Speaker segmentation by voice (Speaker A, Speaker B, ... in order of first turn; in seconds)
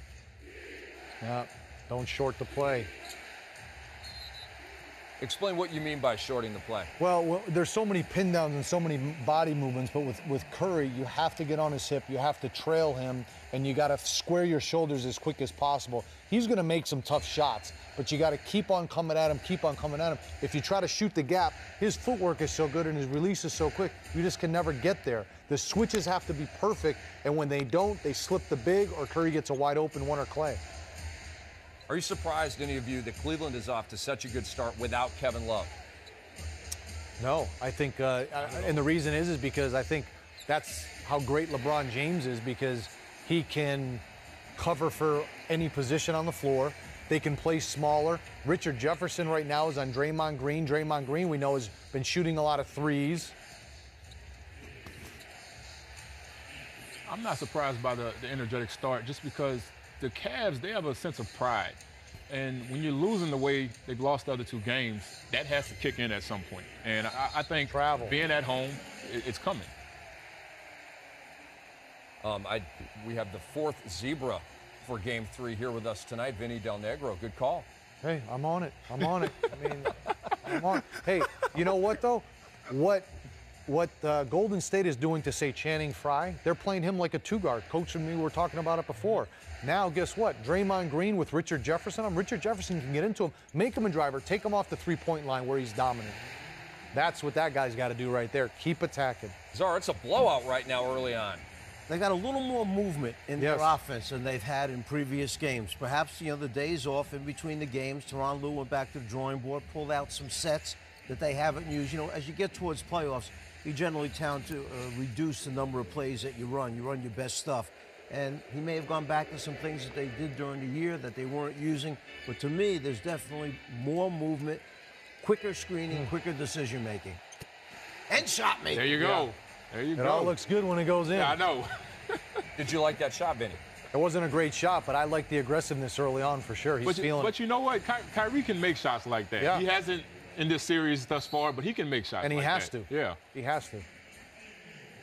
Speaker A: 1.2-2.9, 7.0-30.6, 37.2-44.0, 44.6-53.4, 67.7-68.2, 78.0-83.1, 83.7-96.2, 96.9-99.3, 103.4-103.8, 130.0-131.4, 133.9-137.3, 139.4-139.6, 142.2-143.9
Speaker B: 5.2-6.9, 31.9-35.7, 72.2-77.7, 99.5-101.5, 132.6-133.6
Speaker C: 57.1-69.7, 128.7-130.4, 131.1-132.4, 136.8-143.2
Speaker D: 101.9-124.6, 125.2-127.2, 128.1-129.2